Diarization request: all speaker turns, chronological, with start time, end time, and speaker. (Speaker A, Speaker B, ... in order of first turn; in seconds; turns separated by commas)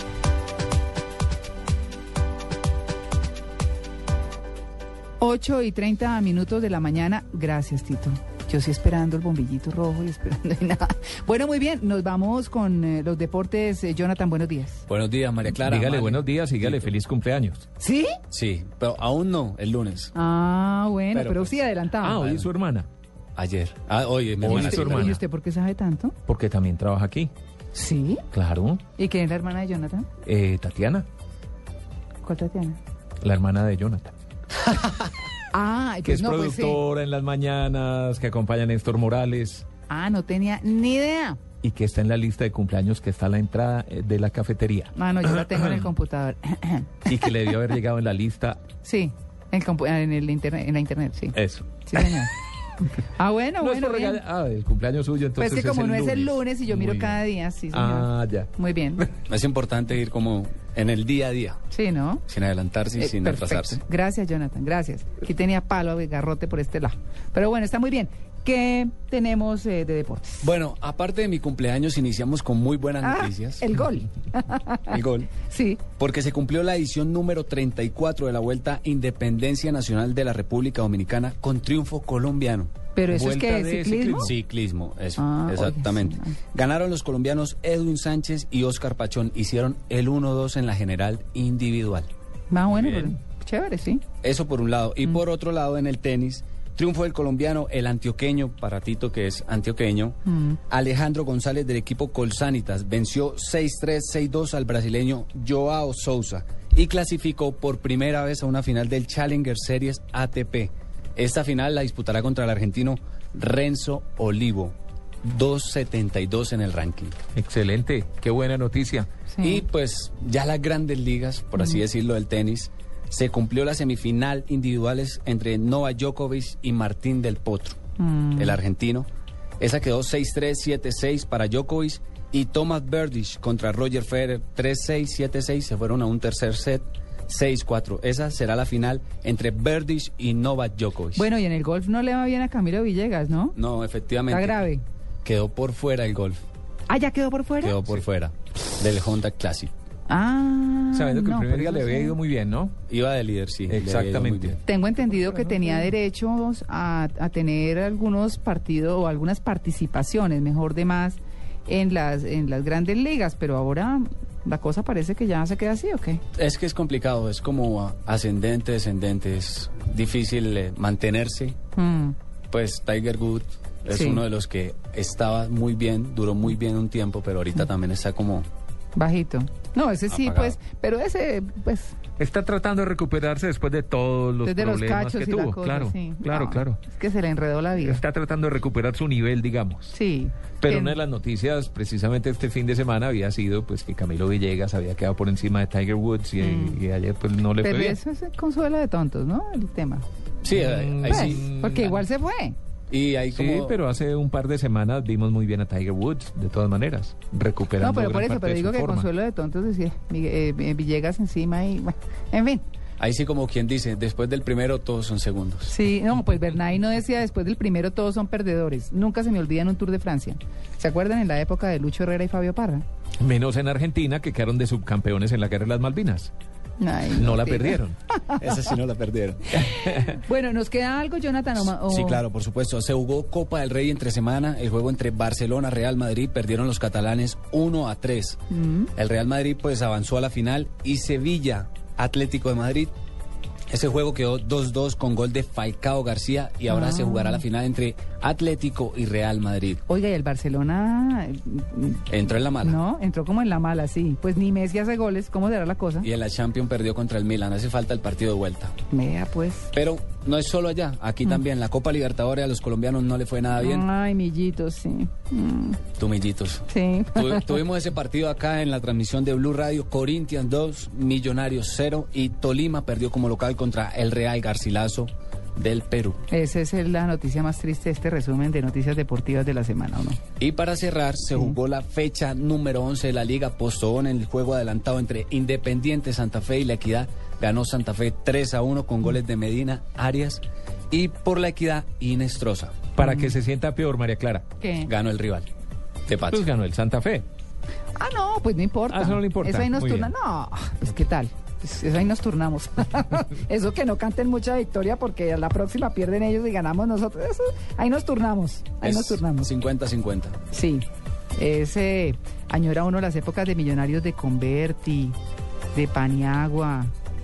Speaker A: 5.2-14.8, Speaker B: 14.9-16.9, Speaker C: 15.5-17.6, Speaker A: 17.8-18.2, Speaker B: 18.3-20.1, Speaker A: 20.1-22.4, Speaker B: 21.1-21.5, Speaker C: 22.0-22.9, Speaker B: 23.4-25.2, Speaker C: 24.4-25.2, Speaker A: 24.5-26.1, Speaker C: 26.3-27.3, Speaker A: 27.7-28.2, Speaker C: 28.3-28.8, Speaker A: 28.9-30.1, Speaker C: 30.2-31.1, Speaker A: 32.2-32.8, Speaker C: 33.2-34.1, Speaker A: 35.5-36.8, Speaker C: 36.0-39.6, Speaker A: 39.9-41.4, Speaker C: 41.6-44.9, Speaker A: 44.9-47.1, Speaker C: 47.1-48.6, Speaker A: 48.8-52.3, Speaker C: 51.3-52.1, Speaker A: 52.9-54.2, Speaker C: 53.6-58.5, Speaker A: 55.4-59.1, Speaker B: 59.3-61.6, Speaker A: 61.7-62.2, Speaker B: 62.3-63.8, Speaker A: 62.9-70.5, Speaker B: 70.4-73.7, Speaker A: 73.0-75.8, Speaker B: 74.9-75.3, Speaker B: 76.0-82.7, Speaker A: 82.9-84.3, Speaker C: 83.1-84.3, Speaker B: 84.2-92.1, Speaker A: 85.2-86.3, Speaker A: 92.5-94.0, Speaker C: 92.8-93.1, Speaker B: 94.2-100.2, Speaker A: 100.3-100.6, Speaker B: 100.7-117.2, Speaker C: 117.3-119.1, Speaker A: 119.3-119.6, Speaker B: 119.4-127.8, Speaker A: 128.0-128.6, Speaker B: 128.3-129.1, Speaker B: 129.6-141.2, Speaker A: 141.2-143.6, Speaker B: 143.5-144.6, Speaker A: 144.3-144.8, Speaker B: 145.2-146.4, Speaker A: 146.9-147.8, Speaker B: 147.6-149.7, Speaker A: 150.1-152.2, Speaker C: 150.9-152.7, Speaker B: 152.9-154.6, Speaker C: 153.7-154.6, Speaker A: 154.6-166.2, Speaker B: 166.3-171.6, Speaker A: 171.7-172.2, Speaker B: 172.5-178.4, Speaker A: 173.9-174.2, Speaker A: 178.9-182.0, Speaker B: 180.1-180.6, Speaker C: 182.2-186.8, Speaker A: 184.4-188.0, Speaker C: 187.8-189.9, Speaker A: 189.9-191.0, Speaker C: 190.6-198.0, Speaker A: 196.4-196.8, Speaker A: 197.6-200.0, Speaker B: 200.4-201.5, Speaker C: 200.5-202.0, Speaker A: 201.0-202.6, Speaker B: 202.9-203.8, Speaker C: 203.3-209.1, Speaker A: 207.8-212.6, Speaker B: 213.0-215.7, Speaker A: 215.7-222.8, Speaker C: 223.2-226.3, Speaker A: 226.8-228.4, Speaker C: 227.1-227.9, Speaker B: 228.4-229.7, Speaker A: 229.5-232.2, Speaker B: 231.6-238.4, Speaker A: 238.5-238.9, Speaker B: 238.9-242.9, Speaker B: 243.7-249.8, Speaker A: 246.7-247.4, Speaker A: 249.8-256.1, Speaker B: 252.1-252.8, Speaker B: 256.0-258.7, Speaker A: 258.9-259.7, Speaker B: 259.7-263.9, Speaker A: 263.6-265.8, Speaker B: 266.0-276.2, Speaker A: 266.7-267.6, Speaker A: 276.3-280.2, Speaker B: 280.4-292.9, Speaker C: 292.9-294.4, Speaker A: 293.0-293.4, Speaker A: 294.6-294.9, Speaker B: 294.8-295.5, Speaker B: 296.1-296.5, Speaker C: 296.3-297.2, Speaker A: 297.9-309.5, Speaker C: 298.9-300.1, Speaker B: 308.8-310.4, Speaker A: 310.5-310.8, Speaker A: 311.4-315.1, Speaker A: 315.7-316.9